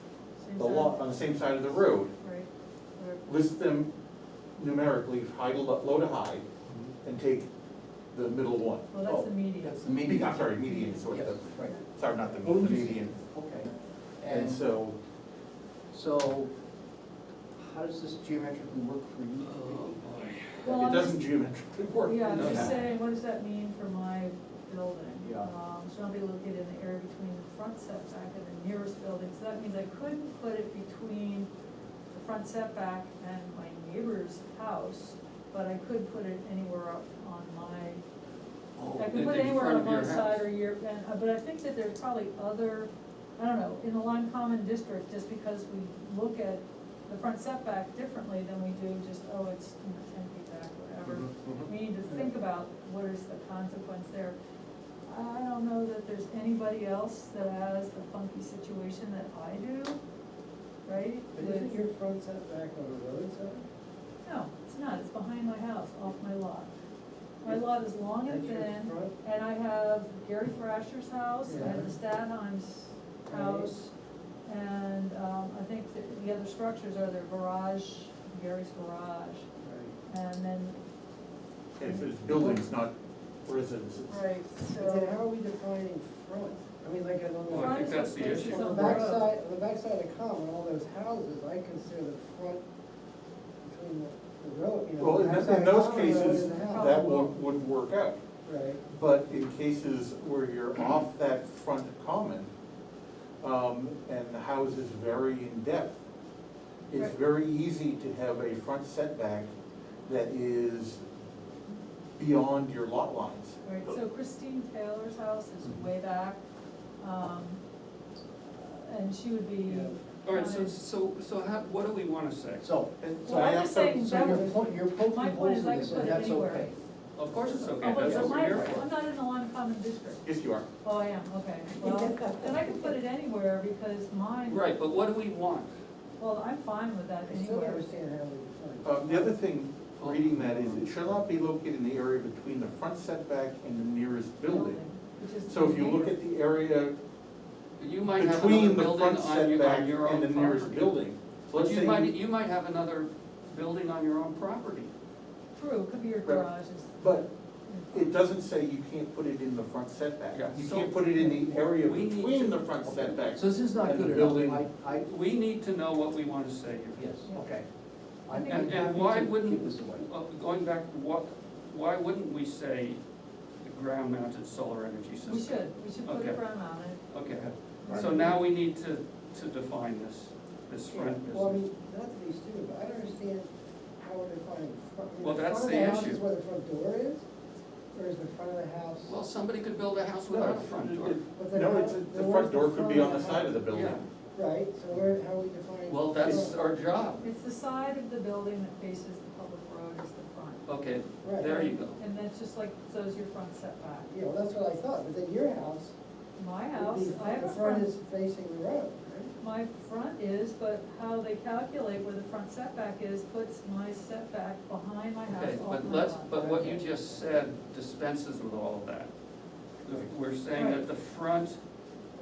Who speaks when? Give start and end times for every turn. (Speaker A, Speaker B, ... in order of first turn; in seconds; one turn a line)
Speaker A: 0.4-1.6
Speaker B: 0.6-2.1
Speaker A: 2.1-3.2
Speaker B: 3.2-3.9
Speaker B: 4.6-6.5
Speaker B: 7.0-7.5
Speaker B: 8.1-9.3
Speaker A: 8.9-9.8
Speaker C: 9.6-11.8
Speaker B: 9.8-13.1
Speaker A: 10.6-11.8
Speaker C: 12.4-14.6
Speaker B: 14.2-14.9
Speaker C: 15.9-16.5
Speaker C: 17.6-20.0
Speaker D: 19.4-20.6
Speaker A: 20.6-21.2
Speaker B: 20.6-22.4
Speaker A: 22.0-31.5
Speaker D: 22.3-22.8
Speaker C: 22.3-22.8
Speaker C: 25.2-25.5
Speaker A: 32.1-38.0
Speaker D: 38.8-40.4
Speaker A: 38.9-54.4
Speaker A: 55.0-60.0
Speaker A: 60.9-61.8
Speaker E: 61.3-63.6
Speaker A: 64.2-66.7
Speaker A: 67.4-73.9
Speaker E: 68.2-69.1
Speaker E: 71.5-71.9
Speaker E: 73.3-73.7
Speaker A: 74.5-79.5
Speaker E: 79.6-79.9
Speaker A: 80.1-80.8
Speaker B: 81.8-82.9
Speaker A: 81.8-82.6
Speaker B: 83.5-84.2
Speaker A: 84.1-85.1
Speaker E: 84.6-92.6
Speaker D: 87.5-89.0
Speaker A: 87.5-89.3
Speaker E: 93.6-96.9
Speaker B: 95.0-98.2
Speaker A: 96.0-97.4
Speaker E: 98.5-98.8
Speaker B: 98.8-102.5
Speaker B: 103.4-106.0
Speaker B: 106.9-109.5
Speaker B: 110.0-111.0
Speaker B: 112.2-113.6
Speaker A: 113.6-116.4
Speaker A: 117.0-117.6
Speaker A: 118.4-120.7
Speaker C: 119.7-120.0
Speaker D: 120.2-122.7
Speaker C: 122.6-126.8
Speaker B: 123.0-124.5
Speaker A: 123.2-126.7
Speaker D: 127.1-128.8
Speaker A: 127.7-130.2
Speaker C: 128.0-128.8
Speaker B: 130.2-130.7
Speaker A: 130.8-134.6
Speaker E: 131.8-132.9
Speaker D: 134.4-135.7
Speaker A: 136.2-137.8
Speaker E: 137.2-139.3
Speaker B: 138.8-144.8
Speaker D: 140.0-140.8
Speaker A: 144.4-146.1
Speaker B: 145.4-146.9
Speaker D: 147.8-150.9
Speaker B: 148.1-152.1
Speaker D: 151.5-154.9
Speaker A: 155.6-158.2
Speaker B: 156.2-157.3
Speaker B: 157.9-164.7
Speaker D: 160.3-163.2
Speaker C: 163.1-165.1
Speaker D: 164.9-167.2
Speaker C: 166.9-167.7
Speaker C: 168.2-170.1
Speaker A: 168.3-168.8
Speaker D: 168.4-173.0
Speaker D: 173.6-176.4
Speaker A: 175.2-177.0
Speaker D: 177.1-181.6
Speaker A: 177.8-178.4
Speaker E: 180.9-183.5
Speaker E: 184.0-187.2
Speaker D: 185.2-186.2
Speaker E: 187.9-189.1
Speaker D: 189.0-191.2
Speaker B: 190.3-194.1
Speaker E: 191.3-193.6
Speaker D: 193.7-194.0
Speaker E: 194.3-196.6
Speaker D: 195.9-197.2
Speaker A: 197.2-200.6
Speaker D: 200.7-202.0
Speaker E: 201.2-201.5
Speaker A: 201.4-204.1
Speaker E: 204.1-205.9
Speaker A: 206.4-207.9
Speaker E: 206.7-209.3
Speaker A: 209.4-216.6
Speaker D: 215.2-219.1
Speaker E: 216.4-216.8
Speaker D: 219.8-221.6
Speaker A: 220.5-220.8